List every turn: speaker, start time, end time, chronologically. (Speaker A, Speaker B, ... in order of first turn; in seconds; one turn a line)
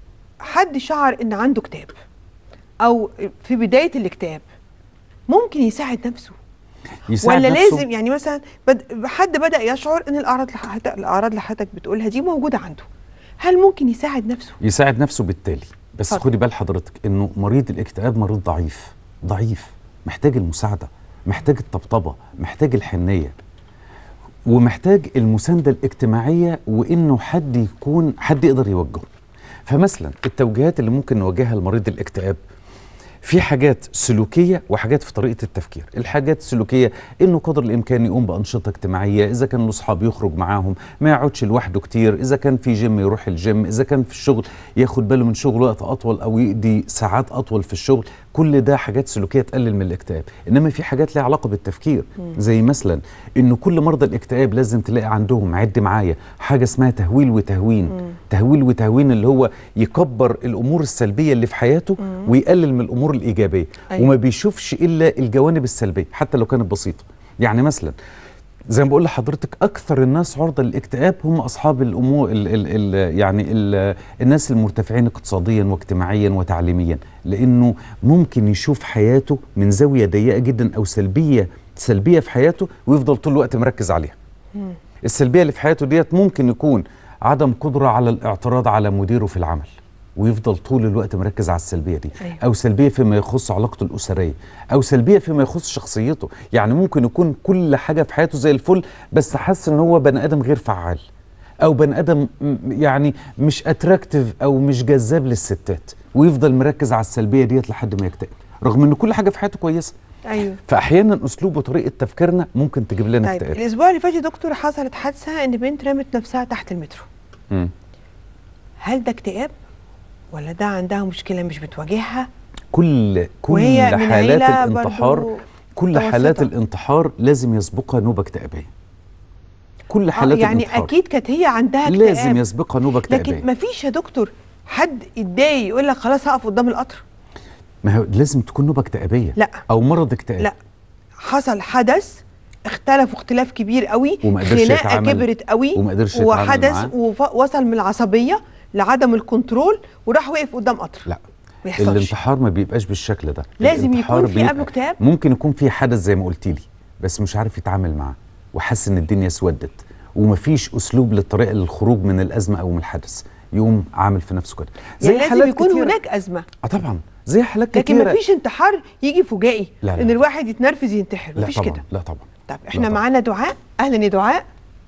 Speaker A: 0.4-1.9
Speaker A: 2.8-4.4
Speaker A: 5.3-6.4
Speaker B: 7.1-7.8
Speaker A: 7.2-12.9
Speaker A: 13.4-14.6
Speaker B: 14.6-23.3
Speaker B: 24.5-29.1
Speaker B: 29.7-32.4
Speaker B: 33.2-68.0
Speaker B: 68.7-84.2
Speaker B: 85.0-101.0
Speaker B: 101.6-109.9
Speaker A: 110.3-110.6
Speaker B: 110.6-113.6
Speaker A: 113.2-117.1
Speaker A: 118.8-119.5
Speaker A: 120.3-122.3
Speaker B: 122.7-128.7
Speaker A: 123.5-126.5
Speaker B: 129.9-130.9
Speaker A: 130.2-132.4
Speaker B: 131.8-133.4
Speaker A: 133.1-137.0
Speaker B: 137.8-140.5
Speaker A: 139.4-139.6
Speaker A: 141.2-151.1
Speaker B: 144.2-146.9
Speaker A: 151.7-152.1
Speaker B: 151.8-165.9
Speaker A: 153.6-155.0
Speaker A: 165.0-166.5
Speaker B: 166.6-168.2
Speaker A: 167.7-171.8
Speaker B: 169.8-170.2
Speaker B: 171.4-173.0
Speaker A: 172.5-174.4